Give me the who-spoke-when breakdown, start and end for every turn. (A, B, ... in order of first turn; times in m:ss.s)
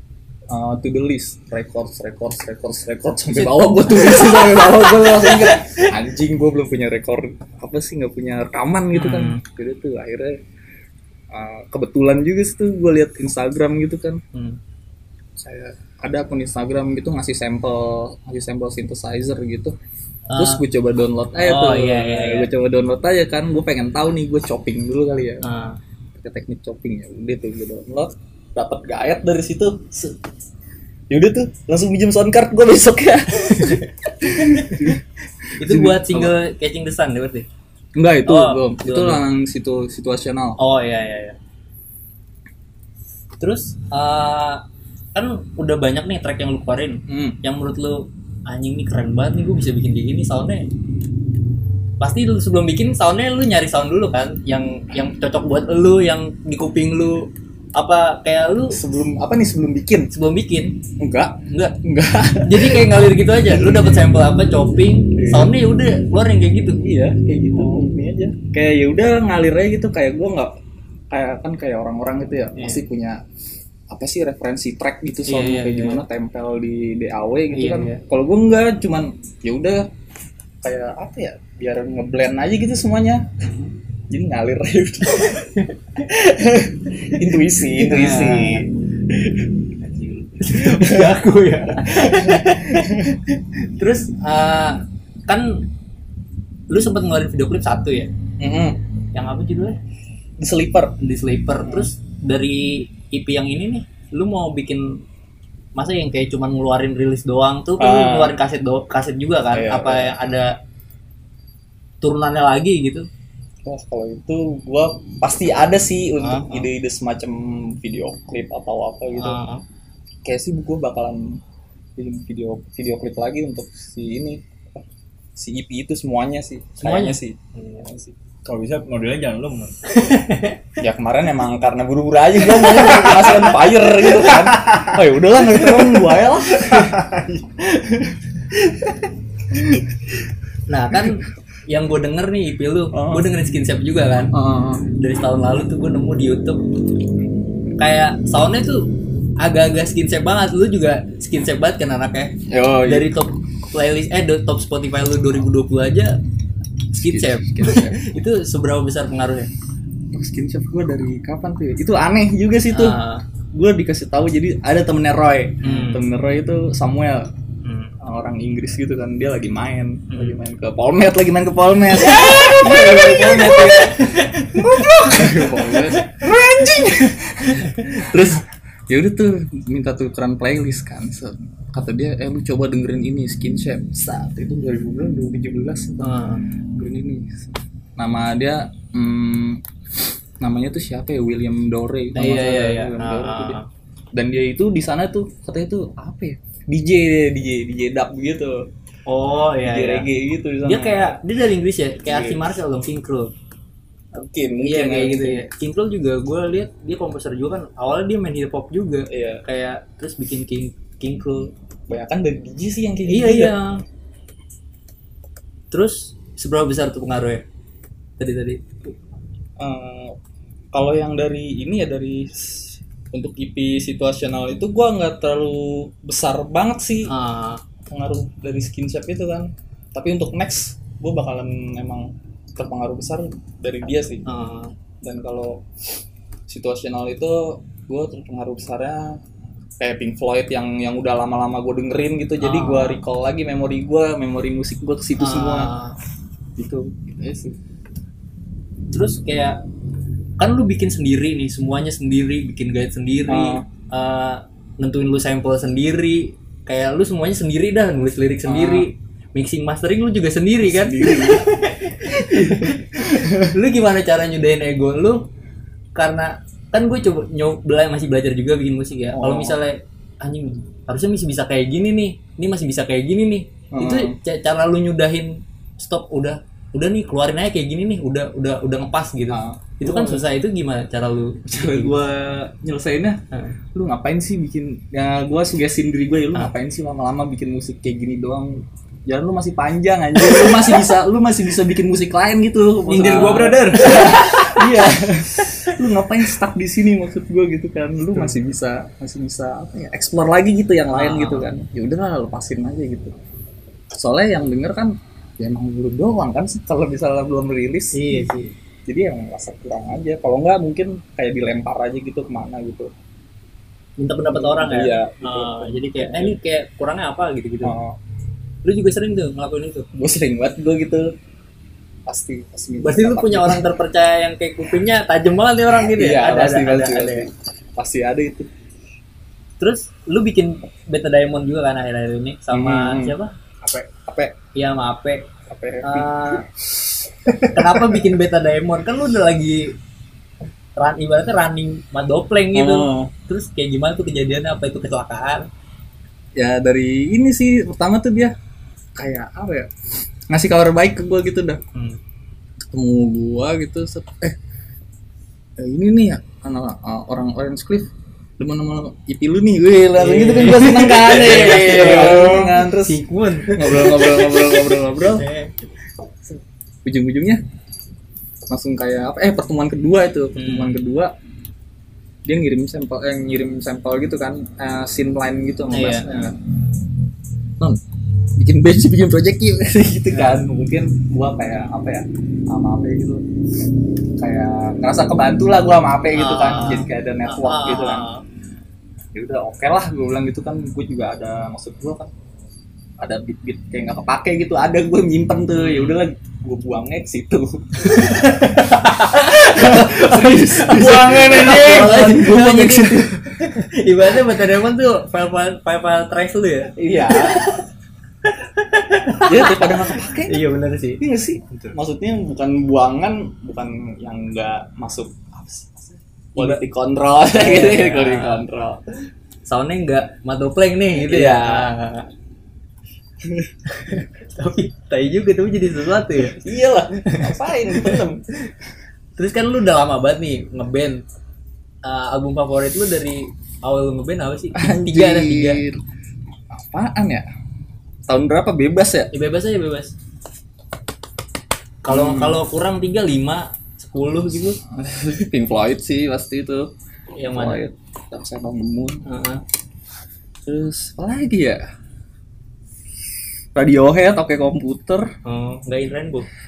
0:00.5-0:10.4 A
0:03.3-0:05.9 B
0:08.9-0:09.4 B
0:11.3-0:14.2 A
0:15.4-0:19.7 A
0:20.3-0:20.6 B
0:20.4-0:25.4 A
0:21.4-0:22.5 B
0:25.4-0:25.8 B
0:26.1-0:30.1 A
0:31.1-0:35.0 A
0:33.4-0:33.9 B
0:34.4-0:34.9 B
0:35.6-0:37.4 B
0:35.6-0:36.3 A
0:37.9-0:40.6 A
0:38.2-0:39.2 B
0:40.6-0:41.4 B
0:43.4-0:44.6 B
0:45.1-0:50.6 B
0:47.1-0:47.4 A
0:52.0-0:58.8 B
0:58.7-1:00.1 A
1:00.1-1:00.8 B
1:01.0-1:04.0 A
1:02.4-1:06.8 B
1:05.2-1:05.6 A
1:06.8-1:10.5 A
1:11.1-1:13.2 A
1:12.5-1:12.8 B
1:13.9-1:19.9 A
1:15.3-1:16.0 B
1:17.5-1:18.0 B
1:20.6-1:23.3 A
1:24.1-1:25.4 A
1:25.1-1:25.7 B
1:26.0-1:29.5 A
1:27.7-1:28.6 B
1:30.4-1:33.0 B
1:30.5-1:31.1 A
1:31.8-1:33.2 A
1:33.8-1:35.7 B
1:36.7-1:38.1 B
1:38.4-1:38.8 A
1:39.1-1:39.8 B
1:40.4-1:40.9 A
1:41.0-1:45.0 B
1:41.6-1:41.9 A
1:45.8-1:50.5 B
1:47.8-1:48.4 A
1:49.5-1:50.1 A
1:52.0-1:53.0 B
1:53.6-1:59.4 A
1:56.2-1:56.6 B
1:59.2-1:59.6 B
2:00.2-2:01.4 A
2:02.0-2:04.8 A
2:05.4-2:08.1 A
2:06.8-2:07.9 B
2:08.4-2:09.7 C
2:09.9-2:10.6 B
2:10.8-2:18.2 A
2:16.8-2:17.2 C
2:19.5-2:19.9 A
2:20.7-2:24.3 B
2:22.9-2:23.3 A
2:24.3-2:24.8 A
2:25.0-2:26.6 B
2:27.8-2:28.8 B
2:29.4-2:32.3 B
2:32.5-2:33.1 A
2:32.8-2:36.2 B
2:36.9-2:39.5 B
2:36.9-2:38.0 A
2:40.1-2:43.0 A
2:42.7-2:43.2 B
2:43.5-2:47.3 A
2:45.6-2:46.0 B
2:47.6-2:47.9 B
2:48.0-3:06.1 A
2:50.1-2:50.4 B
2:52.1-2:55.9 B
2:57.4-2:58.0 B
3:06.0-3:06.4 B
3:06.8-3:13.6 A
3:12.1-3:13.6 B
3:14.1-3:18.6 A
3:19.1-3:20.0 B
3:19.6-3:21.2 A
3:20.6-3:23.3 B
3:22.0-3:22.5 A
3:24.1-3:25.5 A
3:24.6-3:31.5 B
3:29.1-3:29.4 A
3:31.9-3:33.5 A
3:33.1-3:33.8 B
3:35.7-3:37.4 B
3:38.2-3:38.9 B
3:39.6-3:40.1 A
3:40.7-3:47.1 A
3:47.1-3:47.6 B
3:47.9-3:54.2 A
3:54.2-3:54.7 B
3:55.0-3:55.6 A
3:56.5-3:59.2 A
3:59.8-4:05.7 A
4:02.4-4:03.0 B
4:05.2-4:05.9 B
4:06.6-4:07.6 A
4:08.9-4:09.6 B
4:10.4-4:25.2 B
4:13.3-4:13.6 A
4:18.4-4:18.9 A
4:20.6-4:21.5 A
4:22.0-4:23.5 A
4:25.9-4:41.9 B
4:29.1-4:29.6 A
4:33.7-4:34.2 A
4:39.3-4:40.2 A
4:41.5-4:43.2 A
4:43.7-5:03.1 A
4:50.2-4:50.7 B
4:52.8-4:54.5 C
4:53.0-4:54.5 B
5:00.9-5:01.5 B
5:03.9-5:08.3 A
5:07.9-5:08.5 B
5:08.9-5:12.9 A
5:14.0-5:17.7 B
5:14.2-5:16.4 A
5:17.6-5:18.0 A
5:18.6-5:19.9 B
5:19.9-5:21.1 A
5:22.0-5:23.6 A
5:22.8-5:27.3 B
5:25.8-5:28.5 A
5:29.6-5:33.3 B
5:32.5-5:34.3 A
5:34.5-5:35.3 B
5:35.5-5:38.0 A
5:35.8-5:36.4 B
5:37.5-5:39.7 B
5:40.8-5:45.5 B
5:42.5-5:43.1 A
5:46.4-5:48.3 A
5:49.0-5:49.7 A
5:50.3-5:51.6 A
5:52.6-5:54.4 A
5:55.6-6:05.2 A
6:00.0-6:05.5 B
6:01.3-6:02.4 C
6:06.8-6:07.4 A
6:08.5-6:11.1 A
6:10.4-6:10.7 B
6:12.2-6:16.4 A
6:15.7-6:16.1 B
6:18.4-6:23.2 A
6:20.1-6:20.4 B
6:24.2-6:28.1 A
6:26.1-6:28.2 B
6:29.1-6:32.1 A
6:33.0-6:38.4 A
6:35.5-6:36.0 B
6:37.8-6:47.7 B
6:39.0-6:43.2 A
6:46.8-6:47.5 A
6:48.2-6:51.0 B
6:49.2-6:50.4 A
6:51.0-6:58.8 A
6:56.4-6:56.6 B
6:57.3-6:58.4 B
6:59.5-7:02.1 B
7:01.0-7:01.7 A
7:03.2-7:03.5 A
7:03.7-7:06.4 B
7:06.2-7:08.2 A
7:07.1-7:08.0 B
7:09.2-7:11.0 B
7:11.8-7:15.6 B
7:14.5-7:15.8 A
7:16.5-7:17.2 A
7:18.1-7:19.1 A
7:19.1-7:19.9 B
7:21.8-7:24.6 B
7:21.9-7:22.4 A
7:24.7-7:26.7 A
7:27.2-7:27.6 B
7:27.3-7:29.0 A
7:29.0-7:29.4 B
7:30.4-7:31.6 A
7:33.5-7:35.1 A
7:35.2-7:36.3 B